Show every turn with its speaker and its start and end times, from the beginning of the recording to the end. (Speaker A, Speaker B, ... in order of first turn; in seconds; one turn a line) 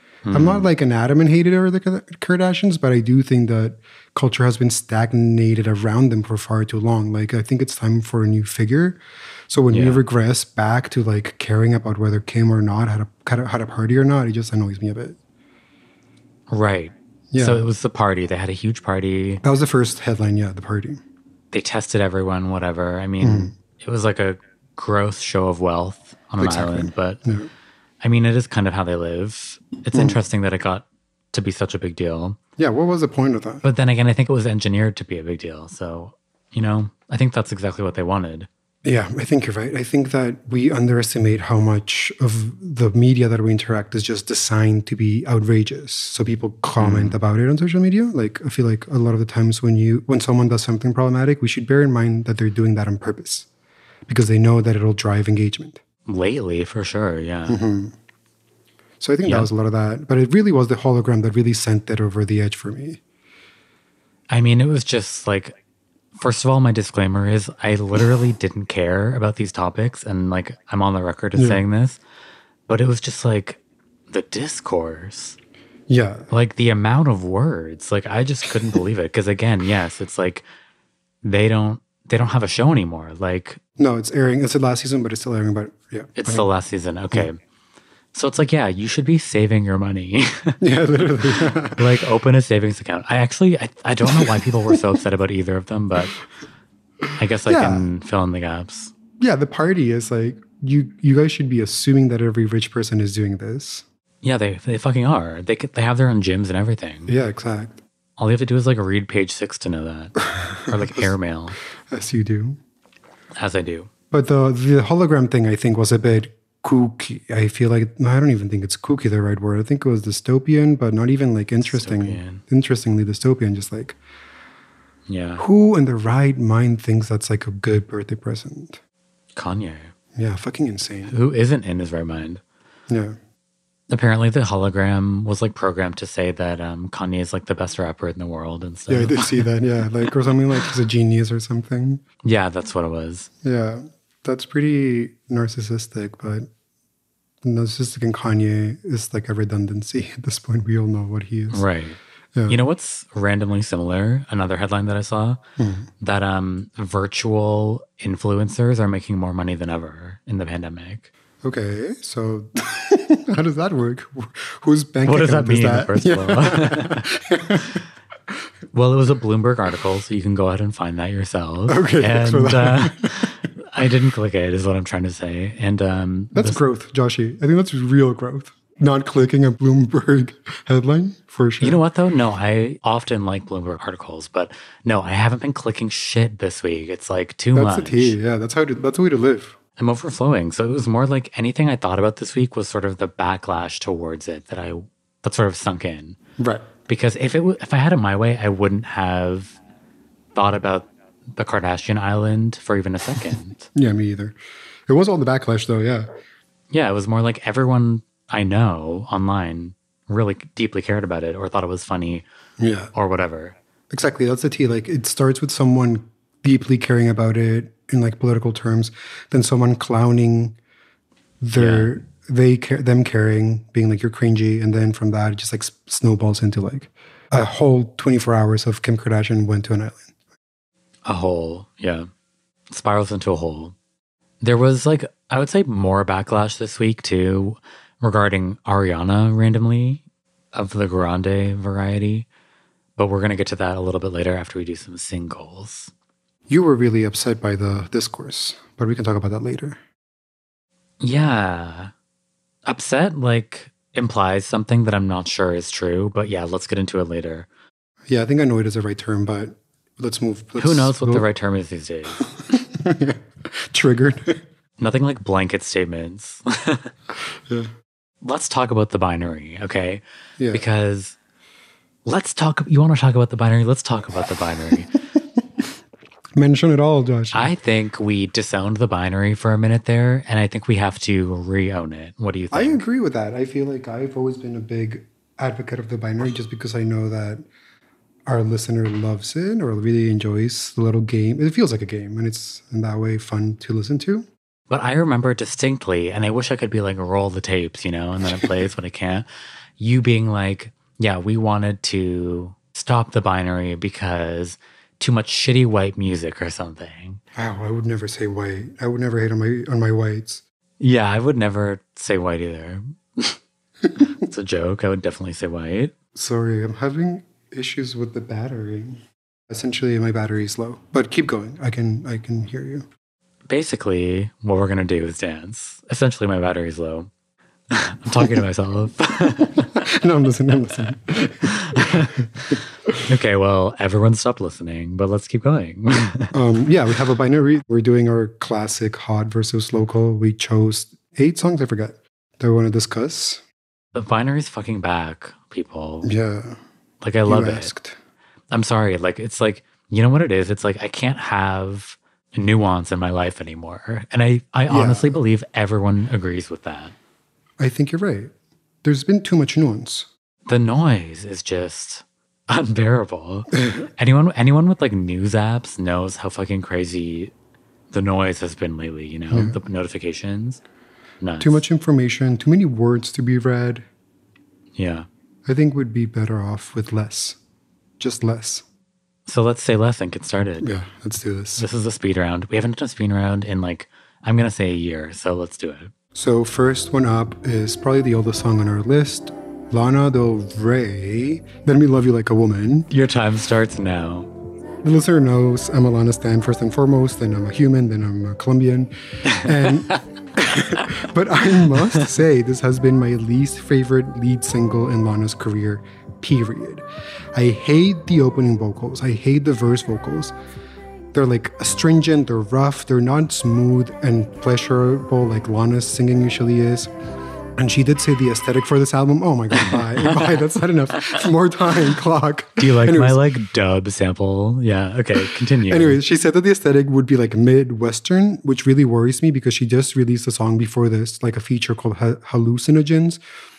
Speaker A: 0.2-0.7
Speaker B: 0.3-15.2
Speaker A: 9.7-10.0
Speaker A: 16.5-19.4
Speaker B: 17.3-17.7
Speaker B: 19.4-21.0
Speaker A: 21.5-27.2
Speaker B: 23.2-23.5
Speaker B: 26.4-27.5
Speaker A: 28.0-32.4
Speaker B: 29.9-30.2
Speaker B: 32.6-33.6
Speaker A: 33.6-38.5
Speaker B: 38.8-53.5
Speaker A: 46.8-47.2
Speaker B: 54.1-55.8
Speaker A: 56.1-57.6
Speaker B: 57.5-57.9
Speaker B: 59.0-63.0
Speaker A: 59.2-59.5
Speaker A: 64.3-65.5
Speaker A: 66.2-72.0
Speaker A: 72.7-75.4
Speaker B: 75.9-76.3
Speaker A: 76.3-80.4
Speaker A: 81.2-83.6
Speaker B: 83.8-86.5
Speaker A: 86.2-87.4
Speaker A: 88.1-90.6
Speaker B: 90.6-91.9
Speaker A: 91.7-96.1
Speaker B: 94.1-94.4
Speaker A: 97.2-98.9
Speaker B: 97.5-97.8
Speaker B: 99.2-103.8
Speaker A: 104.2-107.1
Speaker B: 107.1-107.8
Speaker A: 108.2-111.6
Speaker B: 110.4-111.1
Speaker B: 111.9-112.6
Speaker A: 113.3-113.9
Speaker B: 114.1-124.0
Speaker A: 121.6-122.4
Speaker A: 125.1-125.4
Speaker B: 125.4-128.8
Speaker A: 129.3-129.9
Speaker B: 130.2-131.2
Speaker A: 131.1-132.4
Speaker B: 132.9-133.2
Speaker A: 133.9-139.5
Speaker B: 138.9-142.0
Speaker A: 142.2-143.3
Speaker B: 143.4-146.5
Speaker B: 147.4-151.6
Speaker A: 151.5-155.4
Speaker B: 152.3-152.6
Speaker B: 155.6-155.9
Speaker A: 156.0-161.1
Speaker B: 161.4-167.8
Speaker A: 165.1-167.1
Speaker A: 168.7-176.6
Speaker B: 171.7-173.3
Speaker B: 176.3-181.8
Speaker A: 181.6-188.2
Speaker B: 187.5-189.6
Speaker A: 189.8-196.2
Speaker B: 196.4-196.7
Speaker A: 196.9-199.6
Speaker A: 200.3-203.7
Speaker B: 203.7-206.1
Speaker A: 206.7-212.2
Speaker B: 212.6-212.9
Speaker A: 212.9-213.5
Speaker B: 213.9-220.6
Speaker B: 221.4-230.1
Speaker A: 221.5-221.9
Speaker A: 231.0-232.1
Speaker A: 232.7-233.7
Speaker A: 234.4-240.0
Speaker A: 240.5-242.3
Speaker A: 243.0-245.9
Speaker B: 246.5-249.8
Speaker A: 251.0-251.9
Speaker A: 252.6-257.5
Speaker B: 258.1-261.2
Speaker A: 260.6-262.3
Speaker B: 262.5-264.4
Speaker A: 264.8-266.9
Speaker A: 268.2-271.1
Speaker A: 272.0-274.9
Speaker B: 276.4-277.5
Speaker A: 277.3-282.8
Speaker B: 282.5-287.4
Speaker B: 288.2-294.3
Speaker A: 294.7-299.2
Speaker A: 299.8-307.2
Speaker B: 307.3-310.4
Speaker A: 310.8-313.4
Speaker A: 314.0-315.9
Speaker B: 316.1-322.9
Speaker A: 323.5-327.1
Speaker A: 327.7-329.9
Speaker B: 329.6-333.0
Speaker A: 331.4-336.3
Speaker B: 336.3-343.4
Speaker A: 343.9-346.1
Speaker B: 346.0-346.6
Speaker A: 347.0-347.7
Speaker B: 347.2-348.0
Speaker A: 348.5-356.9
Speaker B: 354.7-355.2
Speaker B: 357.6-358.3
Speaker B: 358.8-360.1
Speaker A: 360.5-367.3
Speaker A: 367.9-370.6
Speaker B: 369.3-369.6
Speaker A: 371.2-371.6
Speaker B: 371.4-373.9
Speaker A: 374.8-375.1
Speaker B: 375.4-377.4
Speaker B: 378.0-378.6
Speaker A: 379.2-380.7
Speaker B: 380.6-381.6
Speaker A: 381.6-385.9
Speaker B: 386.1-392.9
Speaker A: 392.9-394.3
Speaker B: 394.8-410.3
Speaker B: 411.1-416.9
Speaker B: 417.6-423.2
Speaker A: 419.6-420.4
Speaker A: 422.6-426.0
Speaker B: 425.6-433.2